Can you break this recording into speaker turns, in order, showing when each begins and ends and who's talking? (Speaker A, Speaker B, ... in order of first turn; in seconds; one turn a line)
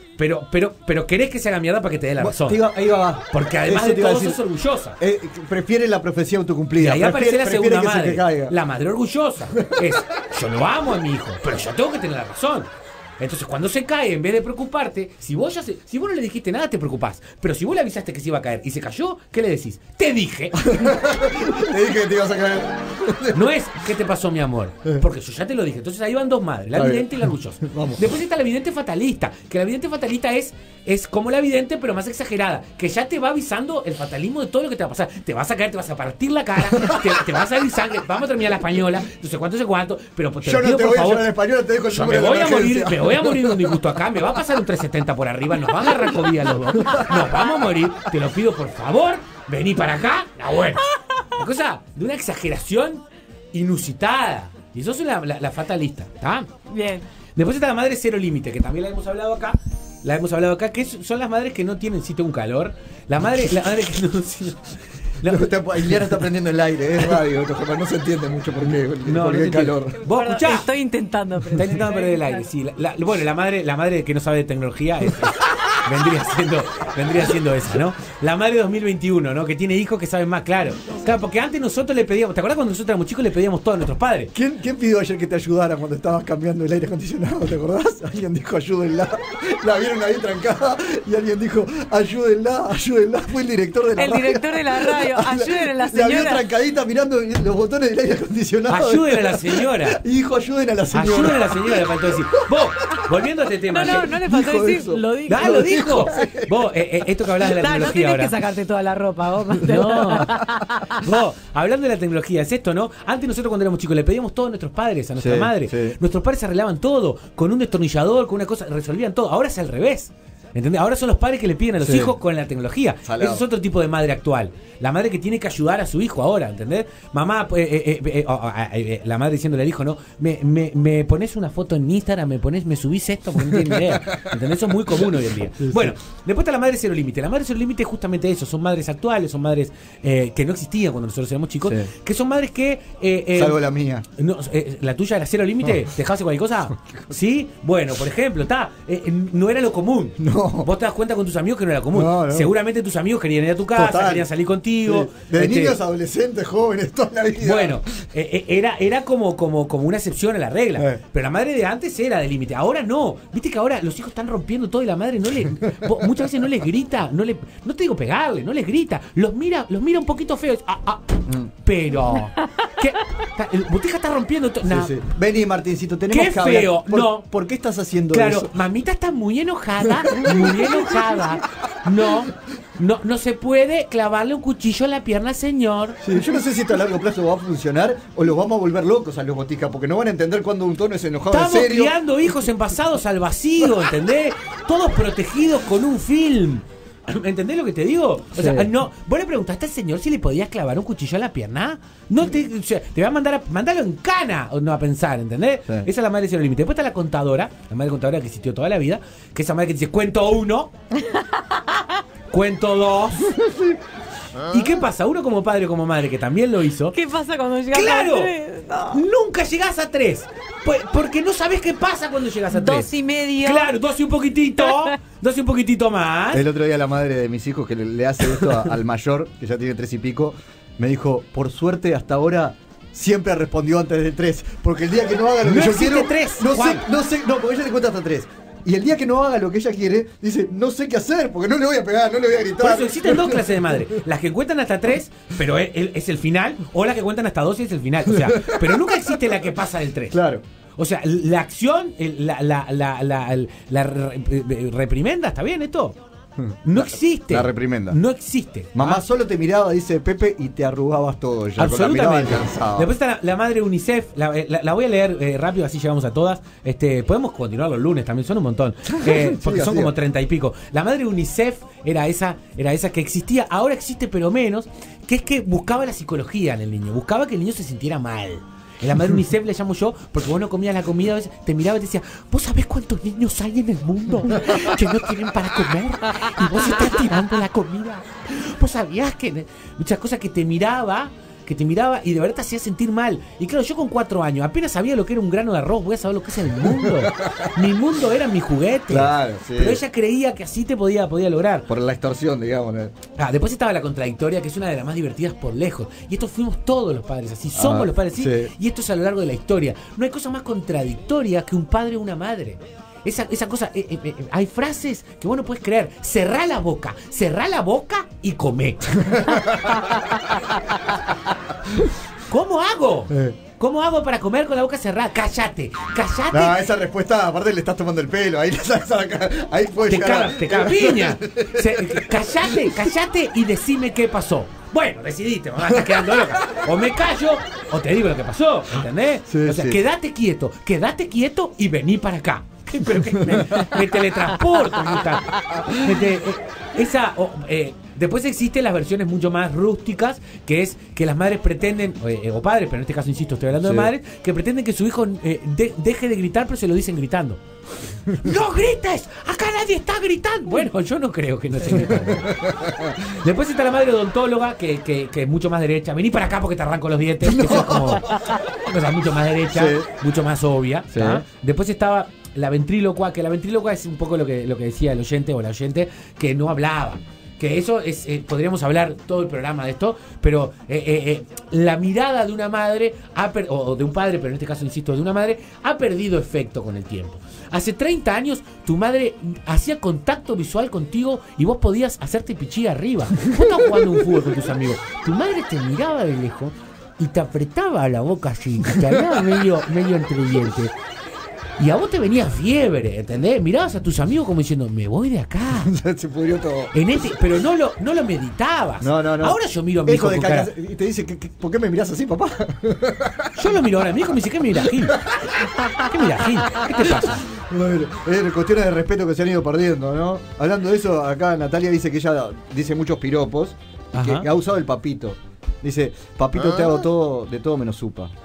Speaker A: 0.2-2.6
Speaker B: 2.2-4.4
Speaker A: 3.3-5.0
Speaker B: 5.0-8.5
Speaker A: 6.8-12.7
Speaker B: 9.6-9.9
Speaker A: 13.2-20.7
Speaker B: 20.6-23.4
Speaker A: 23.3-41.3
Speaker B: 26.7-28.1
Speaker B: 40.4-43.8
Speaker A: 41.9-50.8
Speaker B: 46.8-47.1
Speaker A: 51.3-53.0
Speaker A: 53.5-56.5
Speaker C: 56.7-57.0
Speaker A: 57.4-66.0
Speaker B: 65.2-70.0
Speaker A: 69.0-70.7
Speaker C: 70.1-72.4
Speaker A: 71.5-84.3
Speaker B: 84.3-102.6
Speaker C: 94.0-96.4
Speaker A: 98.7-100.0
Speaker A: 100.9-104.2
Speaker C: 103.7-106.1
Speaker B: 104.2-106.5
Speaker A: 105.3-108.3
Speaker C: 107.4-111.0
Speaker A: 109.6-110.4
Speaker A: 110.9-143.6
Speaker B: 115.2-116.0
Speaker B: 121.8-122.1
Speaker B: 123.0-123.4
Speaker B: 133.5-134.3
Speaker B: 135.6-135.9
Speaker B: 141.6-141.9
Speaker B: 143.3-144.0
Speaker A: 144.2-155.8
Speaker B: 150.2-150.7
Speaker B: 151.9-152.5
Speaker B: 153.7-154.3
Speaker B: 154.8-157.8
Speaker A: 157.4-174.9
Speaker B: 174.6-178.5
Speaker A: 176.1-177.2
Speaker A: 178.1-186.1
Speaker B: 179.9-181.1
Speaker B: 186.0-191.9
Speaker A: 191.3-210.7
Speaker B: 198.3-198.7
Speaker C: 210.9-211.9
Speaker A: 212.3-213.4
Speaker B: 213.3-213.8
Speaker A: 214.5-216.9
Speaker C: 216.9-219.0
Speaker A: 217.7-218.3
Speaker A: 218.9-226.4
Speaker C: 222.5-223.7
Speaker C: 224.6-224.9
Speaker B: 226.3-244.0
Speaker A: 235.4-236.8
Speaker A: 242.6-250.2
Speaker B: 248.1-248.7
Speaker B: 250.1-250.4
Speaker A: 250.8-256.0
Speaker B: 256.4-258.0
Speaker A: 256.6-259.0
Speaker B: 258.7-262.9
Speaker A: 261.6-301.7
Speaker B: 268.9-269.9
Speaker B: 296.8-297.5
Speaker B: 298.9-299.8
Speaker B: 301.7-302.9
Speaker A: 303.1-320.6
Speaker B: 307.5-308.5
Speaker B: 319.0-320.0
Speaker A: 322.3-326.6
Speaker B: 323.1-323.4
Speaker B: 326.3-332.7
Speaker A: 329.9-357.4
Speaker B: 335.8-336.6
Speaker B: 339.3-339.8
Speaker B: 343.3-343.6
Speaker B: 345.5-345.8
Speaker B: 353.6-353.9
Speaker A: 358.1-362.4
Speaker B: 361.7-363.0
Speaker A: 363.1-400.7
Speaker B: 367.3-368.0
Speaker B: 369.5-369.9
Speaker B: 370.9-371.2
Speaker A: 401.6-405.7
Speaker B: 405.6-406.7
Speaker A: 406.7-410.5
Speaker B: 408.8-413.4
Speaker A: 413.4-415.1
Speaker B: 415.1-415.7
Speaker A: 415.7-417.2
Speaker B: 416.7-428.1
Speaker A: 423.9-424.3